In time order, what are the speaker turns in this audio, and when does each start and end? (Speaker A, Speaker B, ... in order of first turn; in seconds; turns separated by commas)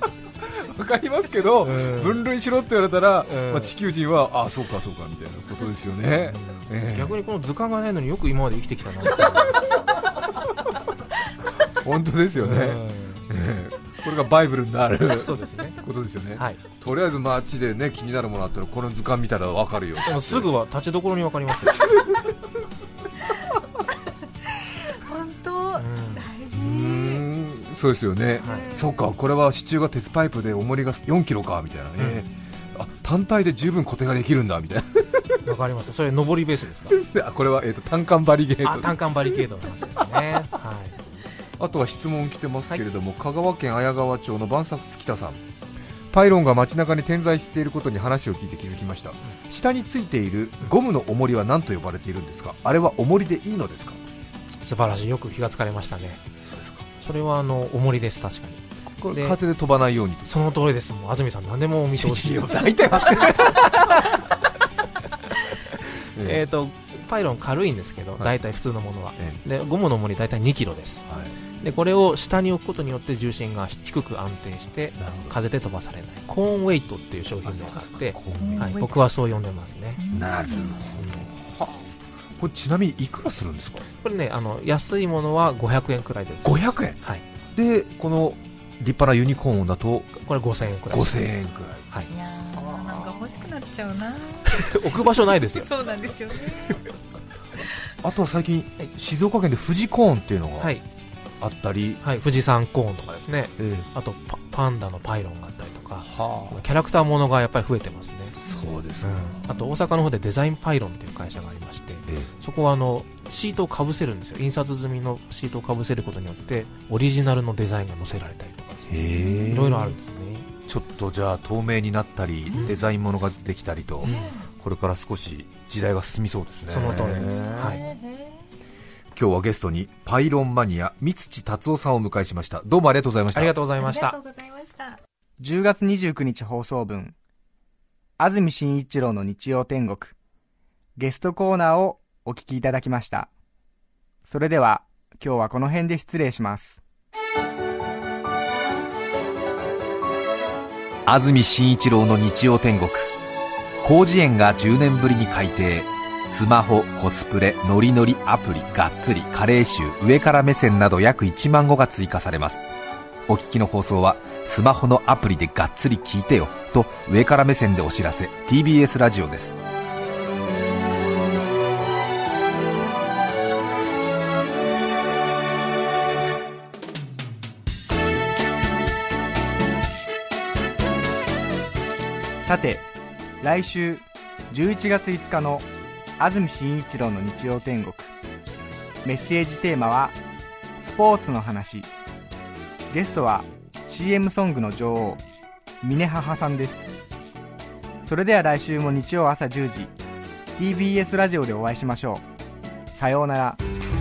Speaker A: 0.4-7.2, Speaker B: 1.6-2.2, Speaker B: 3.2-3.7, Speaker B: 6.2-9.6, Speaker A: 11.7-20.5, Speaker B: 12.4-13.3, Speaker B: 15.2-15.8, Speaker B: 16.4-16.6, Speaker B: 20.0-21.9, Speaker C: 23.3-23.8, Speaker C: 24.5-27.3, Speaker B: 25.8-26.3, Speaker A: 26.5-35.4, Speaker C: 28.4-29.0, Speaker B: 28.4-28.7, Speaker B: 35.5-37.0, Speaker A: 36.9-39.0, Speaker B: 38.6-41.0, Speaker A: 41.6-45.4, Speaker A: 46.1-54.0, Speaker B: 54.6-56.2, Speaker A: 56.4-56.9, Speaker B: 57.0-59.4, Speaker A: 59.0-60.3, Speaker B: 60.3-64.2, Speaker A: 62.0-64.0, Speaker B: 65.7-71.1, Speaker A: 66.2-66.4, Speaker A: 71.1-71.3, Speaker B: 71.6-80.0, Speaker A: 75.0-75.3, Speaker A: 77.4-78.8, Speaker C: 78.3-79.0, Speaker C: 80.0-80.9, Speaker A: 80.1-83.9, Speaker B: 80.9-81.3, Speaker B: 84.0-87.2, Speaker A: 86.4-87.0, Speaker A: 87.5-90.1, Speaker B: 90.2-91.3, Speaker A: 90.9-91.9, Speaker C: 92.1-96.9, Speaker A: 92.6-93.3, Speaker B: 94.5-95.7, Speaker A: 98.0-100.7, Speaker A: 101.4-102.0, Speaker B: 102.0-108.4, Speaker A: 103.6-103.9, Speaker A: 106.0-106.6, Speaker A: 108.4-109.3, Speaker B: 109.0-120.5, Speaker A: 118.9-120.0, Speaker C: 119.1-119.6, Speaker A: 120.7-127.5, Speaker C: 122.5-122.8, Speaker C: 124.0-124.5, Speaker B: 124.0-124.4, Speaker B: 126.7-127.8, Speaker C: 127.0-128.5, Speaker A: 129.1-133.5, Speaker B: 133.3-134.2, Speaker C: 133.8-135.0, Speaker D: 135.4-137.2, Speaker D: 138.2-140.2, Speaker D: 141.0-143.3, Speaker D: 144.3-146.8, Speaker A: 151.1-153.1, Speaker A: 153.8-162.6, Speaker A: 163.3-169.6, Speaker D: 182.4-182.9, Speaker D: 183.4-185.7, Speaker D: 186.2-188.1, Speaker D: 189.0-190.2, Speaker D: 190.8-191.9, Speaker D: 192.9-195.2, Speaker D: 195.8-196.9, Speaker D: 198.1-199.9, Speaker D: 200.6-202.2, Speaker D: 202.9-203.6